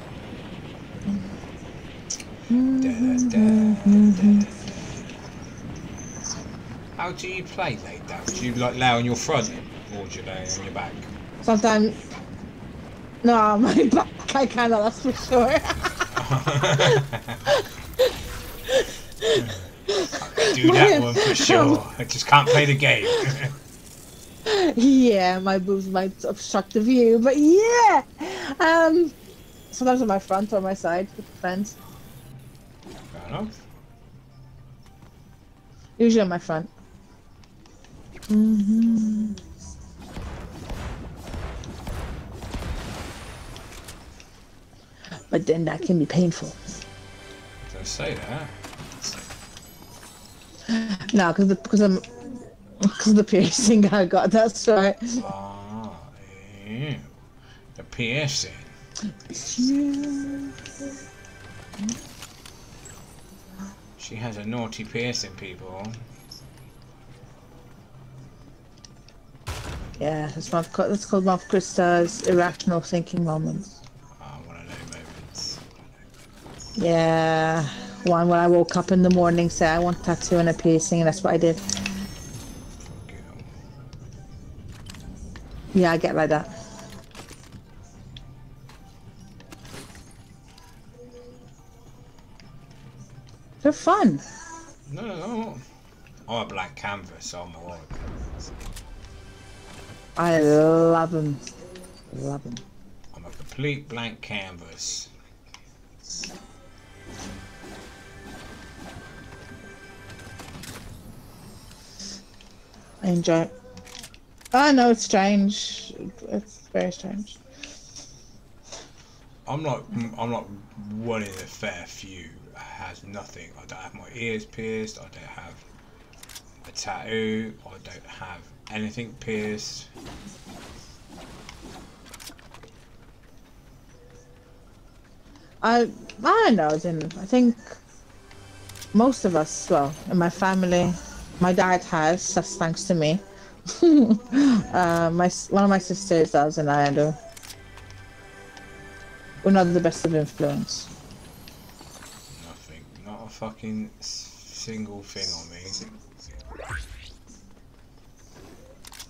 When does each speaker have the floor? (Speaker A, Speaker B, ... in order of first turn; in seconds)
Speaker A: 2.5-4.5, 11.4-12.0, 13.2-16.0, 16.9-18.1, 18.7-21.8, 24.5-29.2, 29.7-31.8, 36.0-36.7, 38.3-39.4, 45.3-46.6, 50.7-55.2, 59.2-60.7, 70.0-73.7, 76.8-81.6, 85.7-86.5, 93.6-94.2, 100.2-101.5, 102.1-102.6, 113.0-113.5, 114.5-117.4, 135.6-137.8, 138.9-147.2, 149.4-150.9
Speaker B: 2.8-4.7, 7.0-11.1, 16.1-17.4, 19.4-23.6, 33.1-33.6, 47.7-48.6, 55.2-57.2, 57.8-58.7, 64.0-66.0, 74.2-75.7, 82.8-83.5, 94.9-95.6, 96.3-98.3, 103.1-105.1, 119.5-125.6, 126.6-129.9, 152.3-156.0